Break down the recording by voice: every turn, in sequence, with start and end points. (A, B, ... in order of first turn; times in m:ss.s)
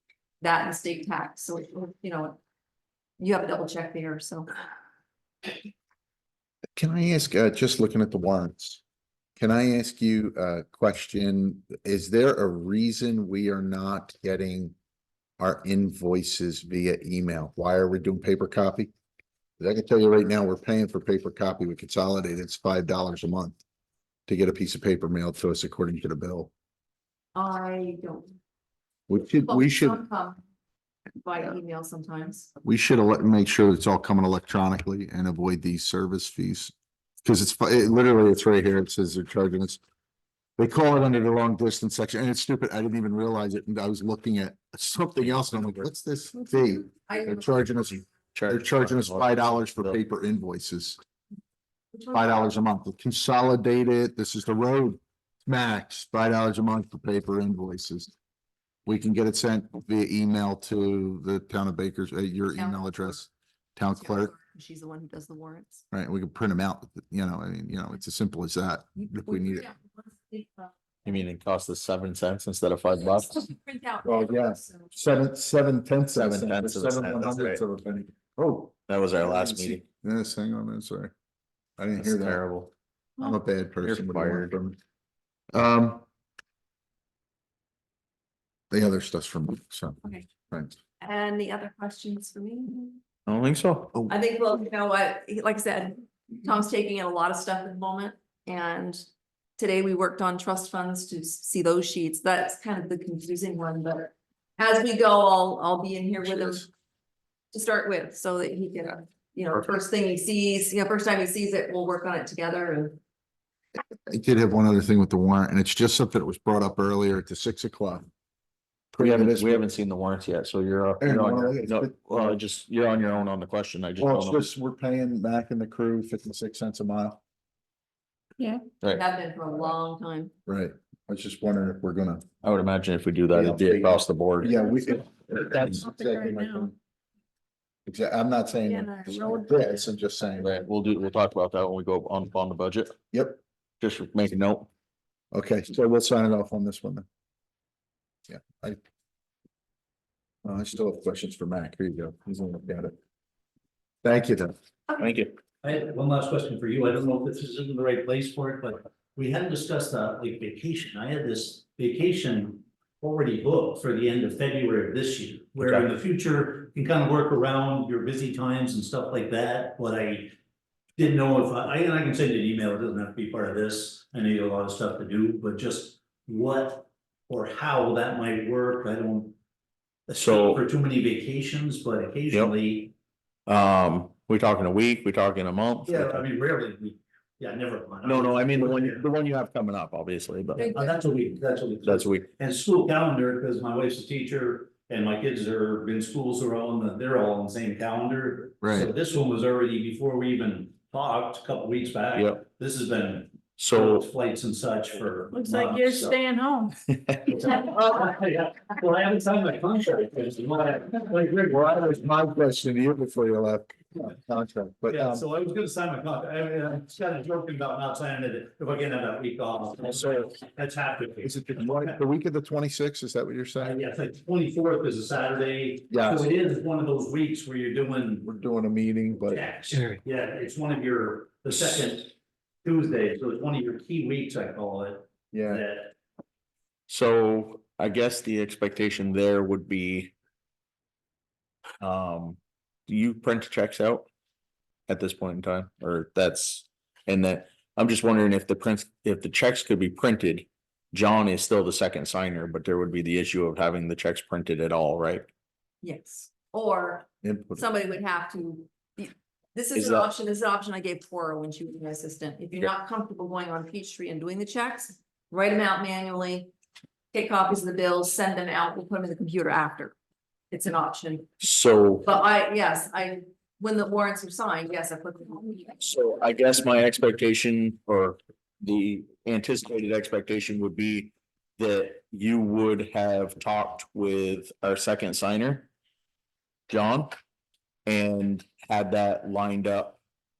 0:00.4-0:02.4 A
0:03.2-0:04.5 A
0:06.8-0:08.8 B
0:09.4-0:14.7 B
0:15.4-0:18.9 B
0:19.6-0:23.6 B
0:24.3-0:26.5 B
0:27.3-0:28.4 A
0:29.1-0:30.0 B
0:29.4-0:30.4 A
0:31.2-0:32.5 A
0:32.6-0:36.7 B
0:37.2-0:39.8 B
0:40.6-0:51.0 B
0:47.1-0:47.7 A
0:48.3-0:50.0 C
0:51.9-0:52.2 A
0:52.1-0:58.1 B
0:58.8-1:04.3 B
1:02.5-1:03.1 A
1:04.0-1:05.8 A
1:05.9-1:09.6 B
1:09.0-1:11.2 A
1:11.0-1:13.4 C
1:13.0-1:15.0 A
1:14.0-1:21.1 B
1:16.1-1:17.6 C
1:18.9-1:19.8 C
1:21.8-1:22.4 B
1:22.0-1:22.7 C
1:23.2-1:24.8 B
1:23.8-1:24.5 C
1:25.5-1:26.0 B
1:28.7-1:30.8 B
1:31.0-1:33.0 A
1:33.3-1:33.9 C
1:34.1-1:39.0 A
1:39.6-1:46.7 A
1:47.5-1:53.0 A
1:54.1-1:58.1 B
1:58.9-1:59.6 B
1:59.0-2:04.4 C
2:01.0-2:02.4 B
2:04.0-2:07.2 B
2:08.9-2:10.3 A
2:10.5-2:12.2 B
2:12.4-2:14.6 C
2:13.3-2:16.8 B
2:15.9-2:16.7 D
2:17.8-2:20.6 B
2:18.9-2:19.3 D
2:20.4-2:23.0 C
2:23.1-2:23.4 B
2:23.8-2:24.7 C
2:25.3-2:27.0 B
2:28.3-2:28.8 B
2:30.4-2:32.9 B
2:34.0-2:34.5 B
2:35.0-2:35.3 C
2:35.6-2:50.3 E
2:51.0-2:59.4 E
3:00.1-3:02.9 E
3:00.2-3:00.6 C
3:03.5-3:06.2 C
3:05.8-3:09.0 E
3:08.0-3:10.7 C
3:10.6-3:11.0 A
3:10.7-3:26.2 E
3:11.8-3:12.2 C
3:18.6-3:18.9 B
3:22.1-3:22.4 C
3:23.6-3:24.1 C
3:25.3-3:26.8 D
3:26.9-3:27.4 C
3:27.2-3:31.9 E
3:31.5-3:35.2 B
3:34.9-3:42.0 E
3:41.2-3:43.8 B
3:43.6-3:48.3 E
3:45.9-3:46.3 B
3:48.2-3:49.4 B
3:49.2-3:55.9 E
3:55.3-3:55.6 B
3:56.9-4:00.1 C
4:01.8-4:04.1 C
4:04.9-4:15.3 C
4:15.8-4:26.5 A
4:17.2-4:17.6 B
4:19.8-4:20.0 C
4:27.1-4:29.9 A
4:30.5-4:31.3 A
4:31.4-4:32.1 C
4:32.0-4:35.8 A
4:35.8-4:45.7 C
4:46.7-4:47.1 C
4:47.8-4:50.0 C